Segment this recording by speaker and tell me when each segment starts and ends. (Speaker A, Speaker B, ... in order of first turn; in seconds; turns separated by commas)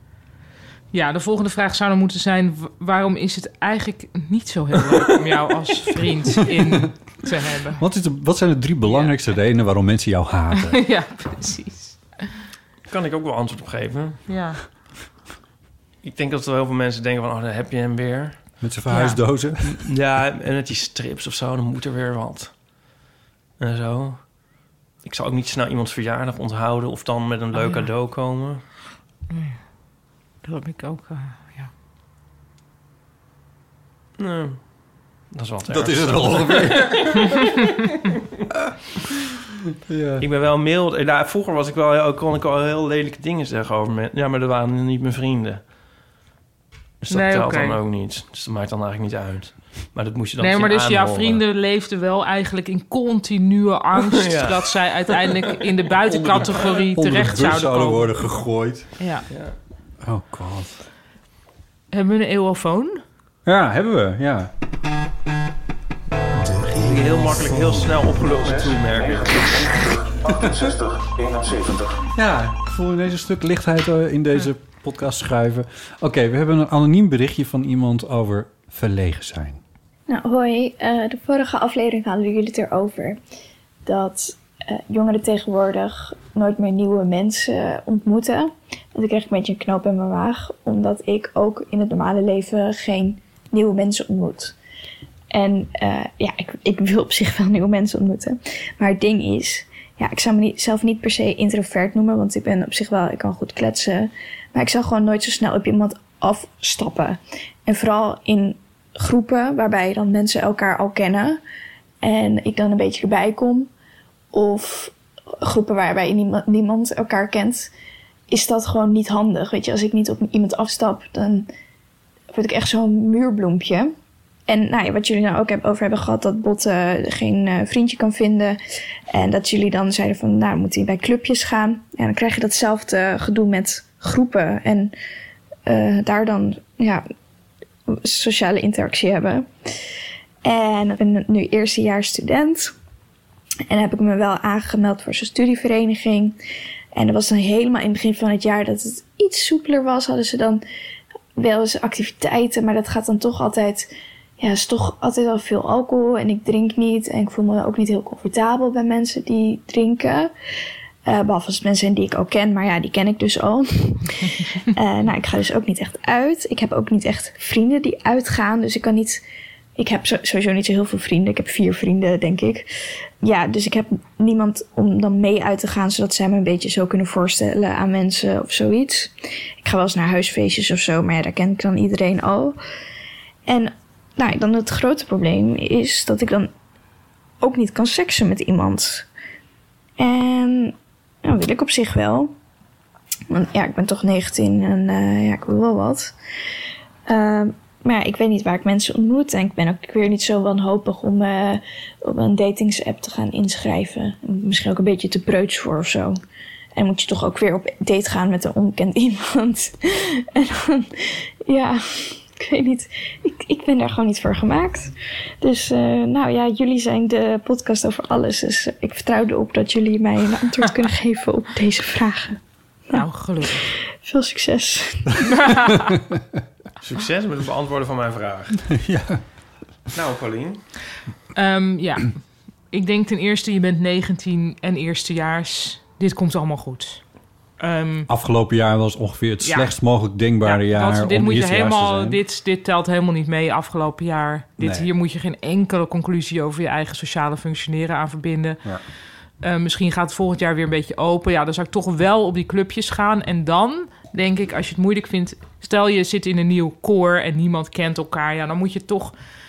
Speaker A: 0.9-7.8, Speaker B: 7.8-10.8, Speaker A: 8.9-9.1, Speaker A: 10.6-12.3, Speaker C: 12.9-14.2, Speaker A: 14.3-14.6, Speaker C: 16.0-18.6, Speaker B: 18.6-19.9, Speaker A: 18.9-19.2, Speaker C: 19.6-22.6, Speaker C: 23.6-28.6, Speaker A: 27.6-27.9, Speaker A: 29.3-29.7, Speaker A: 30.4-31.7, Speaker C: 34.2-37.3, Speaker B: 35.7-37.4, Speaker B: 39.9-40.2, Speaker C: 40.2-45.6, Speaker C: 47.0-51.4, Speaker A: 47.1-47.8, Speaker A: 50.4-58.1, Speaker C: 54.1-54.7, Speaker B: 56.0-58.9, Speaker A: 59.0-59.2, Speaker B: 60.0-60.8, Speaker A: 61.9-63.0, Speaker B: 63.5-64.5, Speaker B: 66.3-67.8, Speaker C: 66.7-70.0, Speaker B: 70.3-70.8, Speaker B: 72.1-79.6, Speaker D: 80.1-83.2, Speaker D: 83.8-94.5, Speaker D: 95.3-111.4, Speaker D: 112.0-113.7, Speaker D: 114.3-117.7, Speaker D: 118.3-121.5, Speaker D: 122.3-123.9, Speaker D: 124.5-128.6, Speaker D: 129.1-134.9, Speaker D: 135.7-137.1, Speaker D: 137.9-139.5, Speaker D: 140.4-142.7, Speaker D: 143.7-146.4, Speaker D: 146.9-150.6, Speaker D: 151.4-160.3, Speaker D: 161.1-169.2, Speaker D: 169.8-172.7, Speaker D: 173.2-182.6, Speaker D: 183.5-186.5, Speaker D: 187.4-189.1, Speaker D: 190.0-192.3, Speaker D: 193.3-196.1, Speaker D: 197.1-206.2, Speaker D: 206.8-222.4, Speaker A: 222.9-223.7, Speaker D: 223.6-225.2, Speaker A: 225.3-225.9, Speaker C: 226.8-228.7, Speaker B: 228.7-229.2, Speaker C: 229.9-230.6, Speaker A: 231.3-237.0, Speaker A: 237.6-238.1, Speaker B: 238.1-242.2, Speaker A: 239.4-239.7, Speaker A: 240.4-248.6, Speaker B: 244.6-244.9, Speaker A: 249.4-259.1